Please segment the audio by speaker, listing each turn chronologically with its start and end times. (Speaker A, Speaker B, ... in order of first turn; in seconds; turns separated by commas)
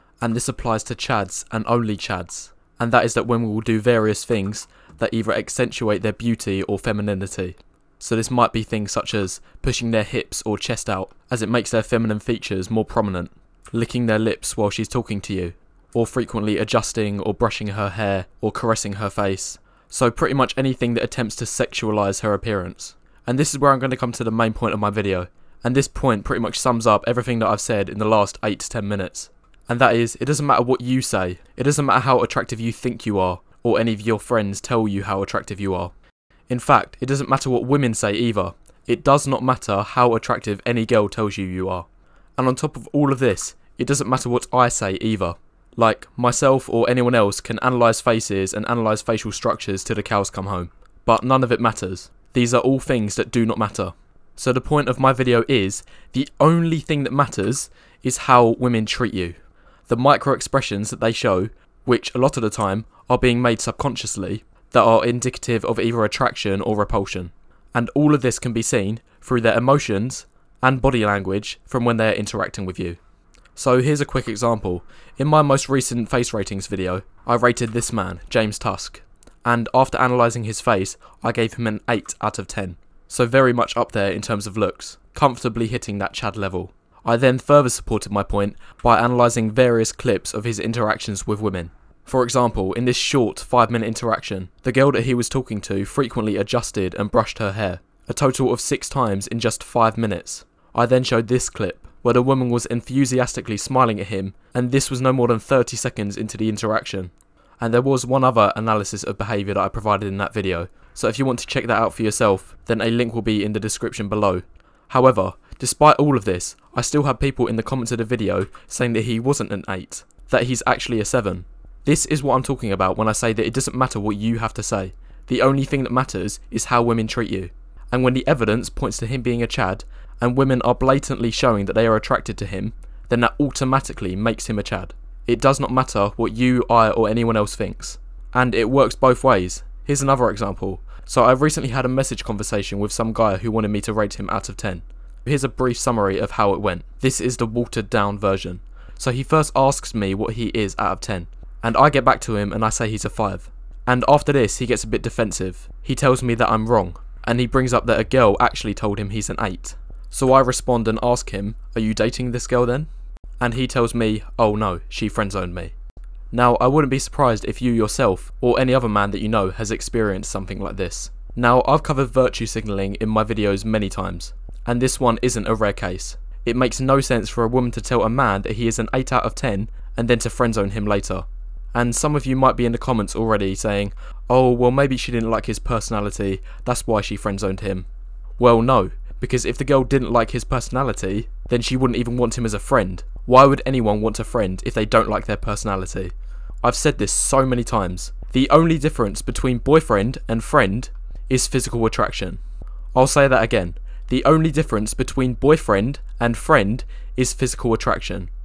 Speaker A: 0.2-35.9, Speaker A: 36.5-41.9, Speaker A: 42.4-73.0, Speaker A: 73.5-162.9, Speaker A: 163.4-165.7, Speaker A: 166.3-187.9, Speaker A: 188.4-202.4, Speaker A: 202.9-208.3